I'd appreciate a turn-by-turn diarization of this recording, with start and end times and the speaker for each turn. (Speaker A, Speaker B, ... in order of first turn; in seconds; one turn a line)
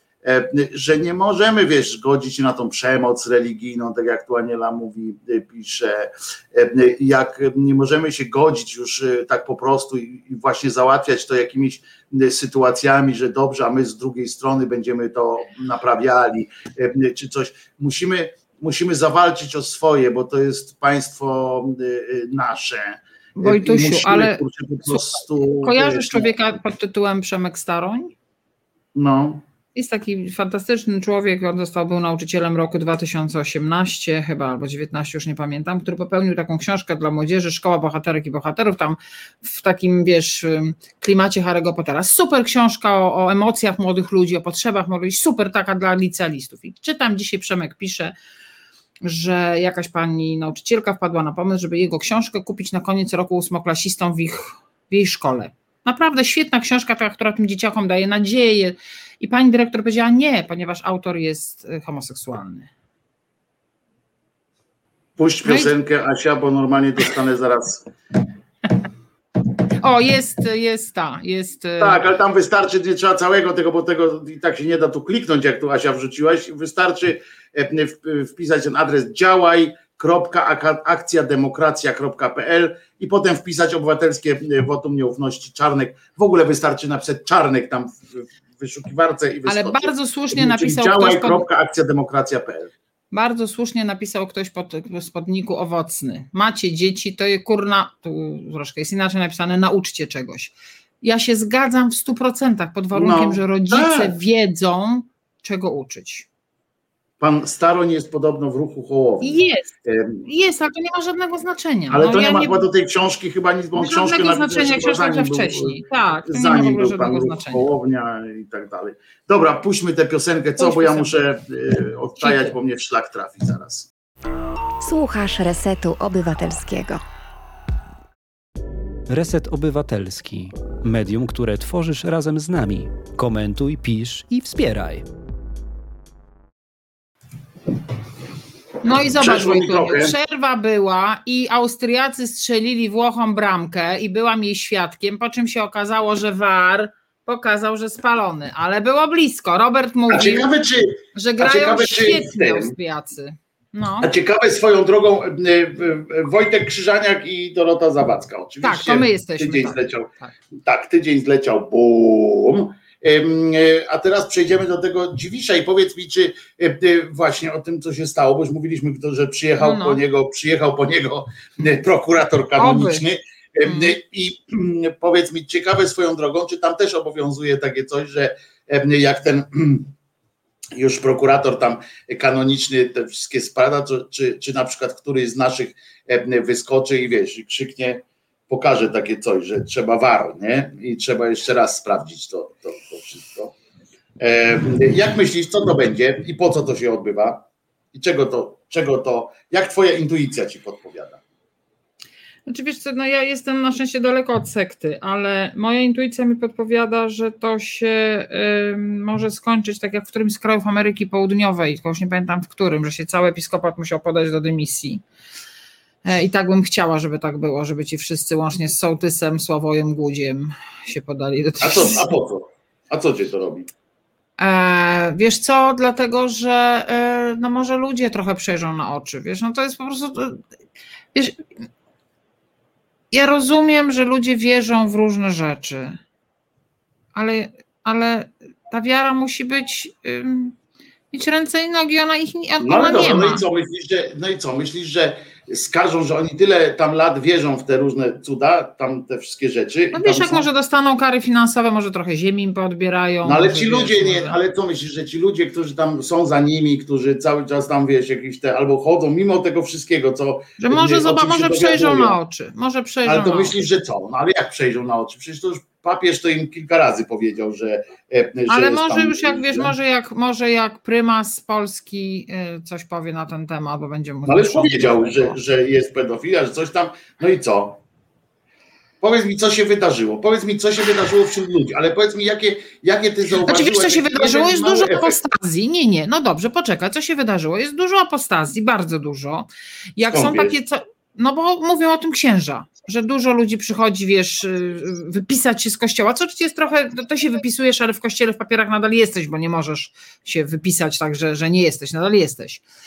Speaker A: 0.2-26.3
Speaker B: 23.4-24.4
Speaker B: 25.6-28.1
Speaker A: 28.9-29.4
Speaker B: 29.7-48.1
Speaker B: 49.0-62.7
Speaker A: 65.2-67.8
Speaker B: 65.4-65.7
Speaker B: 69.8-72.0
Speaker A: 71.8-92.7
Speaker B: 89.5-91.4
Speaker B: 93.1-106.3
Speaker A: 102.9-104.1
Speaker A: 107.2-110.2
Speaker B: 109.2-112.6
Speaker A: 111.9-123.9
Speaker B: 113.7-117.7
Speaker B: 120.6-121.2
Speaker B: 122.2-122.5
Speaker C: 124.8-127.0
Speaker D: 129.1-135.1
Speaker B: 138.8-150.4
Speaker A: 139.2-140.2
Speaker A: 150.1-152.7
Speaker B: 151.1-154.1
Speaker A: 154.0-179.9
Speaker B: 158.6-160.3
Speaker B: 169.6-170.0
Speaker B: 172.6-173.0
Speaker B: 173.6-173.9
Speaker A: 180.7-193.5
Speaker A: 194.2-197.4
Speaker A: 197.9-201.2
Speaker B: 202.5-215.0
Speaker B: 216.0-222.1
Speaker A: 221.6-223.7
Speaker B: 224.4-230.4
Speaker B: 231.1-231.5
Speaker B: 233.1-236.0
Speaker B: 237.1-240.5
Speaker B: 241.1-243.4
Speaker A: 242.6-250.5
Speaker B: 249.9-254.4
Speaker A: 253.2-262.2
Speaker B: 260.6-263.5
Speaker A: 263.0-269.7
Speaker B: 268.5-275.3
Speaker A: 274.2-277.8
Speaker A: 279.0-285.2
Speaker B: 283.4-289.4
Speaker B: 290.0-302.6
Speaker A: 290.1-290.5